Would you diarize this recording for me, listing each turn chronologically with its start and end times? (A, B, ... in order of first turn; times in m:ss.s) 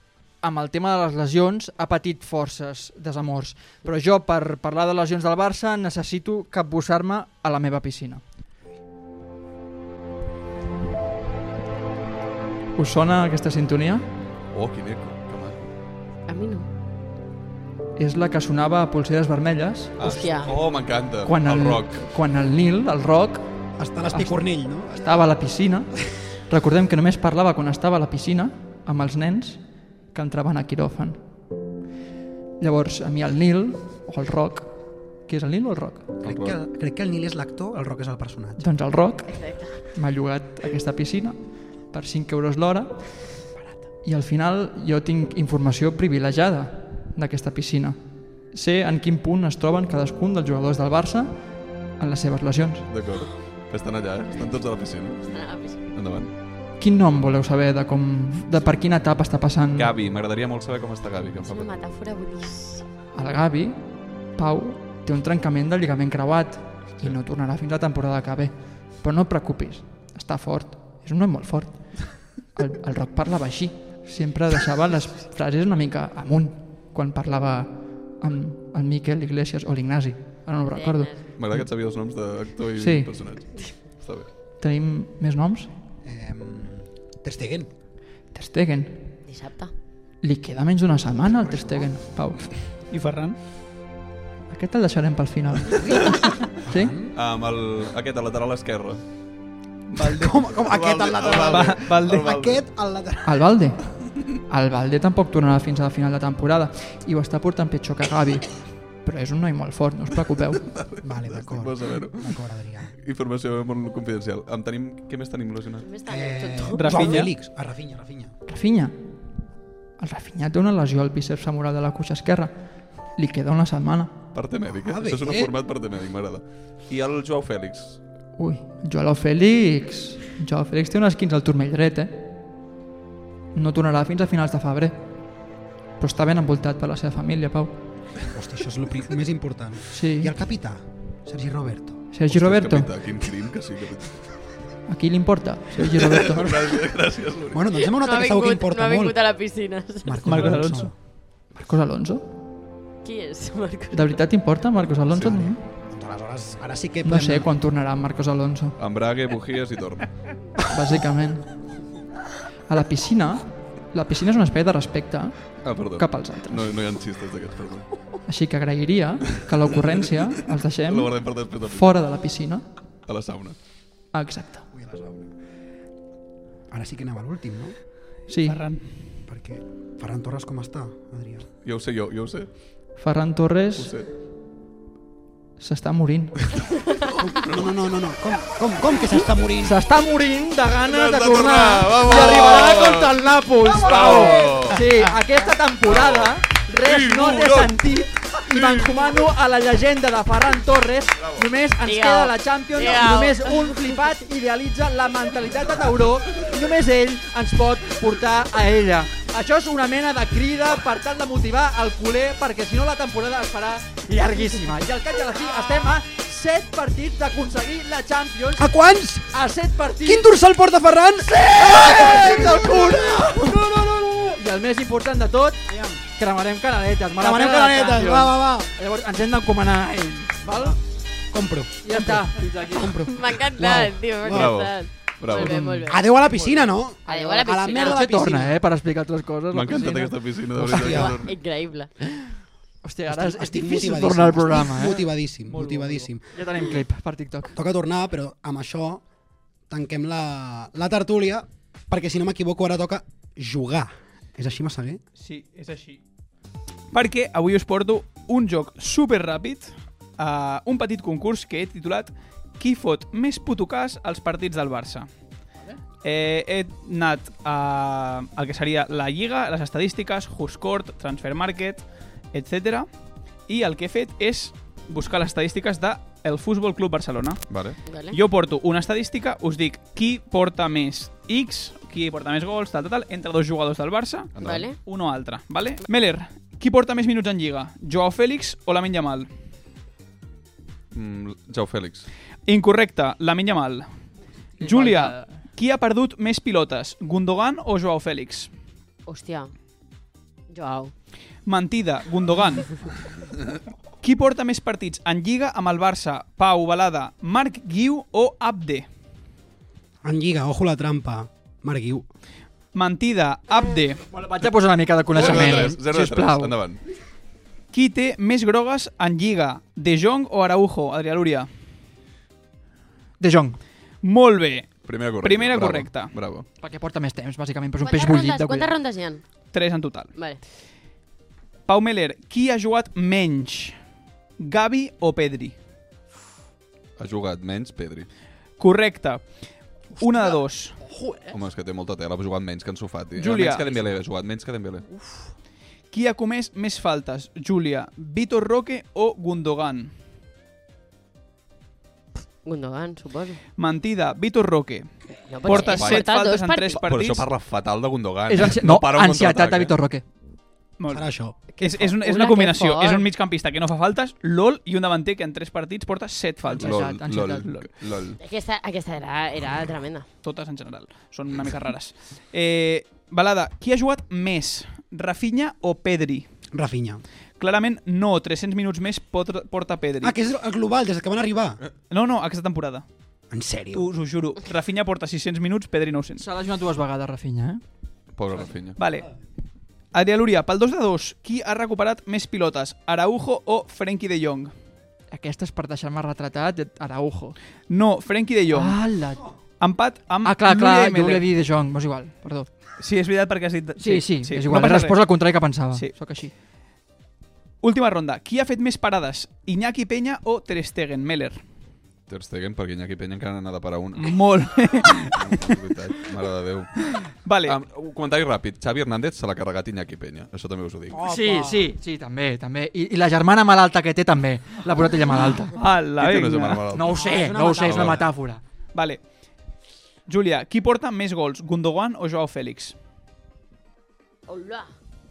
0:00.4-0:08.2 A
0:12.8-0:14.0 A
0:14.5-0:15.6 B
0:16.3-0:16.7 C
0:18.0-0:20.2 A
0:20.0-0:22.0 B
0:20.0-0:20.6 C
0:21.2-0:23.4 A
0:23.8-0:25.2 D
0:24.1-0:24.4 A
0:24.9-0:29.6 A
0:30.1-0:31.2 A
0:32.6-0:36.1 A
0:36.2-0:36.6 B
0:36.2-0:38.7 D
0:38.6-0:41.4 A
0:39.3-0:39.7 C
0:41.9-0:43.1 A
0:44.0-0:48.0 A
0:48.5-0:51.3 A
0:52.0-0:52.9 A
0:52.9-0:55.3 B
0:55.3-0:55.8 C
0:55.9-0:56.3 B
0:56.8-0:59.9 A
0:59.8-1:01.7 B
1:01.4-1:02.8 C
1:03.1-1:03.8 A
1:04.3-1:21.7 A
1:20.7-1:21.3 C
1:21.4-1:24.3 B
1:22.8-1:23.1 A
1:24.6-1:25.7 A
1:26.0-1:27.7 D
1:28.3-1:29.1 A
1:29.2-1:29.7 C
1:30.2-1:32.4 A
1:31.1-1:31.9 D
1:32.9-1:33.4 E
1:34.5-1:36.9 A
1:35.7-1:37.1 D
1:37.1-1:39.0 B
1:40.0-1:40.5 E
1:40.1-1:42.6 B
1:40.2-1:43.4 D
1:41.1-1:42.3 E
1:43.2-1:43.8 A
1:44.4-1:50.6 A
1:50.6-1:52.4 B
1:51.0-1:52.9 D
1:52.9-1:55.9 B
1:55.8-1:57.3 C
1:56.0-1:58.3 D
1:56.8-1:57.3 E
1:58.5-1:58.9 A
2:00.0-2:02.5 A
2:03.1-2:04.1 A
2:04.3-2:08.0 B
2:04.8-2:05.5 D
2:08.4-2:12.2 A
2:13.5-2:15.0 A
2:16.0-2:17.7 A
2:18.3-2:22.0 D
2:19.9-2:20.3 A
2:22.1-2:22.9 A
2:22.2-2:24.2 B
2:24.9-2:26.7 A
2:25.8-2:27.6 B
2:27.5-2:29.2 D
2:27.7-2:30.6 C
2:30.0-2:30.9 D
2:30.2-2:30.9 E
2:31.5-2:32.2 A
2:33.0-2:34.2 C
2:33.9-2:35.6 A
2:35.1-2:35.5 B
2:35.9-2:37.5 D
2:37.0-2:38.8 A
2:38.8-2:40.1 B
2:40.7-2:41.5 A
2:42.7-2:46.7 A
2:45.6-2:47.9 B
2:48.2-2:51.1 A
2:50.8-2:52.0 B
2:51.7-2:52.6 A
2:53.0-2:53.6 B
2:54.1-2:54.6 A
2:54.7-2:55.3 D
2:56.7-2:57.8 D
2:58.3-2:58.6 A
2:58.4-2:58.9 E
2:59.3-3:01.5 D
3:01.6-3:02.5 B
3:03.0-3:03.9 A
3:03.8-3:04.1 B
3:05.6-3:06.4 A
3:07.2-3:09.8 D
3:09.6-3:38.7 A
3:10.8-3:13.2 B
3:13.7-3:14.8 B
3:13.9-3:14.5 D
3:15.8-3:17.8 B
3:18.5-3:19.1 B
3:21.8-3:23.8 C
3:38.6-3:39.4 D
3:39.3-3:40.3 A
3:40.0-3:44.4 D
3:41.2-3:43.7 A
3:44.3-3:45.6 A
3:45.7-3:46.0 D
3:46.2-3:50.8 A
3:47.2-3:48.7 D
3:50.5-3:50.8 D
3:51.3-3:52.4 D
3:51.8-3:53.2 A
3:52.7-3:56.0 C
3:53.6-3:54.5 D
3:54.2-3:55.6 B
3:55.3-3:56.0 A
3:55.9-3:58.6 D
3:57.1-3:58.0 C
3:57.1-4:00.2 A
3:59.5-4:01.3 B
4:00.6-4:01.2 D
4:00.9-4:01.9 C
4:02.8-4:05.0 A
4:03.1-4:06.8 D
4:05.5-4:06.1 E
4:06.3-4:07.5 A
4:07.5-4:09.0 D
4:09.7-4:15.0 D
4:15.2-4:16.0 E
4:16.9-4:25.1 E
4:26.0-4:32.9 E
4:33.5-4:37.5 E
4:37.5-4:37.8 B
4:37.8-4:38.2 C
4:38.1-4:44.3 E
4:44.4-4:44.7 B
4:44.4-4:44.8 C
4:44.8-4:49.3 E
4:50.9-4:52.0 B
4:52.5-4:53.9 E
4:54.6-4:55.4 A
4:54.6-4:58.5 E
4:59.1-4:59.5 C
5:00.5-5:00.9 C
5:01.4-5:02.7 E
5:04.0-5:08.8 E
5:10.0-5:12.0 D
5:12.7-5:14.0 E
5:14.1-5:16.6 A
5:15.1-5:16.8 B
5:15.2-5:15.8 D
5:17.7-5:21.5 E
5:23.2-5:23.6 A
5:24.0-5:26.1 E
5:24.8-5:26.4 B
5:26.6-5:28.7 A
5:27.8-5:29.2 C
5:29.5-5:30.1 E
5:30.1-5:30.4 C
5:31.7-5:33.8 E
5:34.4-5:35.5 E
5:37.0-5:38.1 B
5:38.6-5:40.8 E
5:40.0-5:40.3 A
5:40.9-5:41.3 A
5:41.3-5:44.8 B
5:43.1-5:43.8 E
5:45.9-5:49.9 E
5:52.4-5:53.4 C
5:53.6-5:54.9 E
5:55.3-5:56.8 C
5:55.4-5:57.2 E
5:55.5-5:56.1 B
5:56.8-5:59.7 B
5:58.3-6:00.0 A
6:00.8-6:06.8 E
6:00.9-6:01.4 D
6:01.6-6:03.1 C
6:06.5-6:07.7 A
6:06.6-6:08.2 B
6:08.2-6:10.0 C
6:10.2-6:16.2 E
6:16.5-6:17.0 D
6:17.4-6:20.2 E
6:20.0-6:21.6 D
6:21.9-6:22.8 E
6:23.3-6:23.8 D
6:23.7-6:26.2 E
6:26.2-6:27.6 A
6:28.1-6:28.8 B
6:28.8-6:29.1 E
6:29.9-6:34.5 E
6:35.1-6:37.4 A
6:37.7-6:38.8 E
6:38.5-6:39.2 A
6:39.6-6:41.3 E
6:40.2-6:42.5 A
6:42.8-6:45.0 E
6:43.8-6:46.3 A
6:47.6-6:51.4 E
6:52.1-6:54.2 B
6:54.0-6:55.6 E
6:55.1-6:56.7 B
6:56.8-6:57.6 E
6:57.4-7:01.0 B
7:00.9-7:01.7 D
7:01.0-7:05.5 A
7:05.6-7:06.6 E
7:06.0-7:07.0 B
7:06.7-7:08.4 A
7:06.9-7:08.1 D
7:07.6-7:08.0 B
7:08.7-7:09.1 E
7:10.1-7:12.7 E
7:14.3-7:14.7 C